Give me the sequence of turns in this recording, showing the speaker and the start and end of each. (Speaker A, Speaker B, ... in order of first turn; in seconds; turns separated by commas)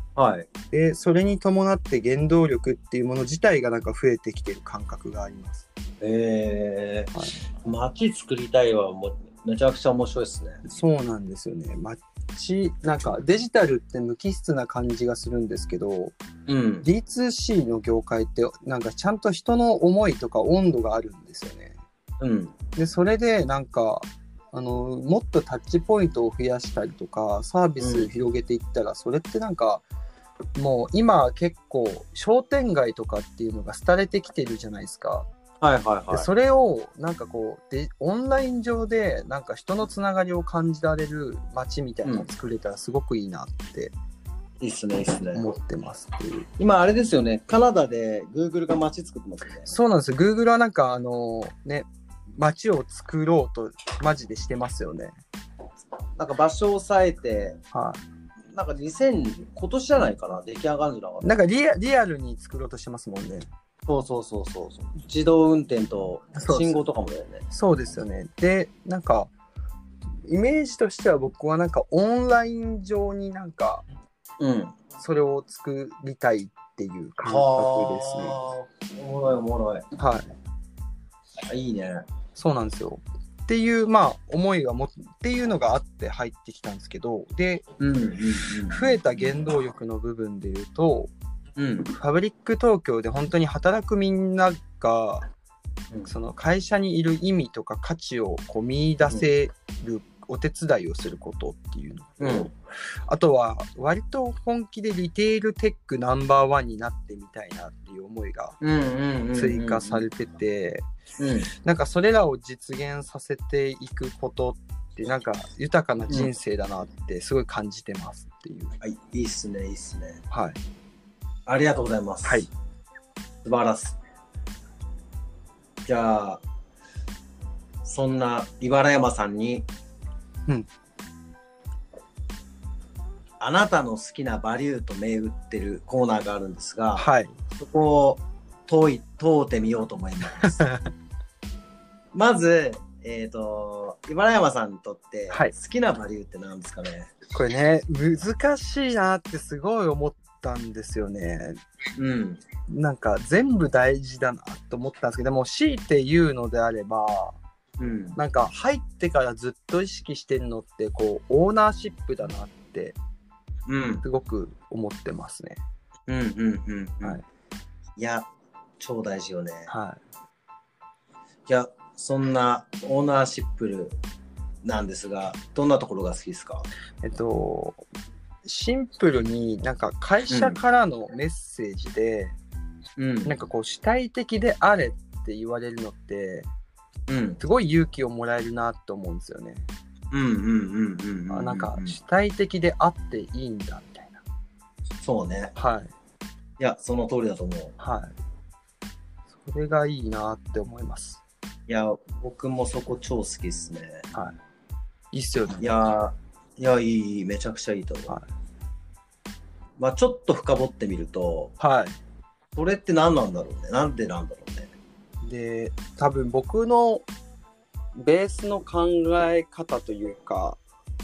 Speaker A: 0.2-0.5, Speaker B: 0.7-5.7, Speaker A: 6.0-7.1, Speaker A: 7.6-10.6, Speaker B: 10.7-16.2, Speaker A: 16.5-16.9, Speaker B: 16.8-21.8, Speaker A: 22.2-22.6, Speaker B: 22.8-29.9, Speaker A: 27.8-28.1, Speaker B: 30.6-35.3, Speaker A: 35.6-36.3, Speaker B: 36.1-43.9, Speaker A: 44.6-45.5, Speaker B: 45.3-46.5, Speaker A: 46.6-49.7, Speaker B: 49.7-55.2, Speaker A: 56.2-57.6, Speaker B: 57.7-58.0, Speaker A: 58.5-61.4, Speaker B: 61.2-63.5, Speaker A: 63.9-67.5, Speaker B: 66.4-66.8, Speaker B: 67.5-69.3, Speaker B: 70.2-73.8, Speaker A: 74.4-74.8, Speaker B: 75.0-78.4, Speaker A: 77.2-79.8, Speaker B: 80.0-80.3, Speaker A: 81.5-82.0, Speaker B: 82.3-87.7, Speaker A: 87.8-89.0, Speaker B: 88.7-91.1, Speaker A: 91.6-91.9, Speaker B: 91.9-95.2, Speaker B: 96.1-102.5, Speaker A: 102.2-102.5, Speaker B: 103.1-108.6, Speaker A: 108.6-110.0, Speaker B: 109.3-110.8, Speaker A: 111.2-111.5, Speaker B: 111.6-118.8, Speaker A: 118.8-120.2, Speaker B: 120.3-120.6, Speaker A: 121.5-122.5, Speaker B: 122.2-122.5, Speaker A: 123.4-124.0, Speaker A: 125.8-126.4, Speaker A: 127.8-129.7, Speaker A: 133.4-140.6, Speaker B: 137.0-137.4, Speaker B: 140.4-140.9, Speaker A: 142.1-147.1, Speaker B: 147.3-151.6, Speaker A: 152.0-152.4, Speaker B: 152.7-157.4, Speaker A: 157.8-158.2, Speaker B: 158.2-163.0, Speaker A: 163.7-164.0, Speaker B: 164.0-165.6, Speaker A: 166.1-167.2, Speaker A: 168.0-168.3, Speaker A: 168.8-169.7, Speaker B: 169.7-170.0, Speaker A: 171.5-174.0, Speaker A: 174.6-176.7, Speaker B: 177.0-177.8, Speaker B: 178.4-182.4, Speaker A: 180.3-180.6, Speaker A: 183.0-183.3, Speaker B: 183.2-186.5, Speaker A: 187.1-187.4, Speaker B: 187.4-189.7, Speaker A: 190.1-192.0, Speaker B: 191.3-194.2, Speaker A: 195.0-195.5, Speaker B: 195.6-195.9, Speaker A: 196.6-197.7, Speaker B: 197.8-198.1, Speaker B: 199.4-201.2, Speaker A: 201.7-204.1, Speaker B: 205.1-205.7, Speaker A: 205.6-208.2, Speaker A: 209.8-211.5, Speaker B: 211.6-212.0, Speaker A: 212.6-214.7, Speaker B: 215.2-217.1, Speaker B: 218.0-220.6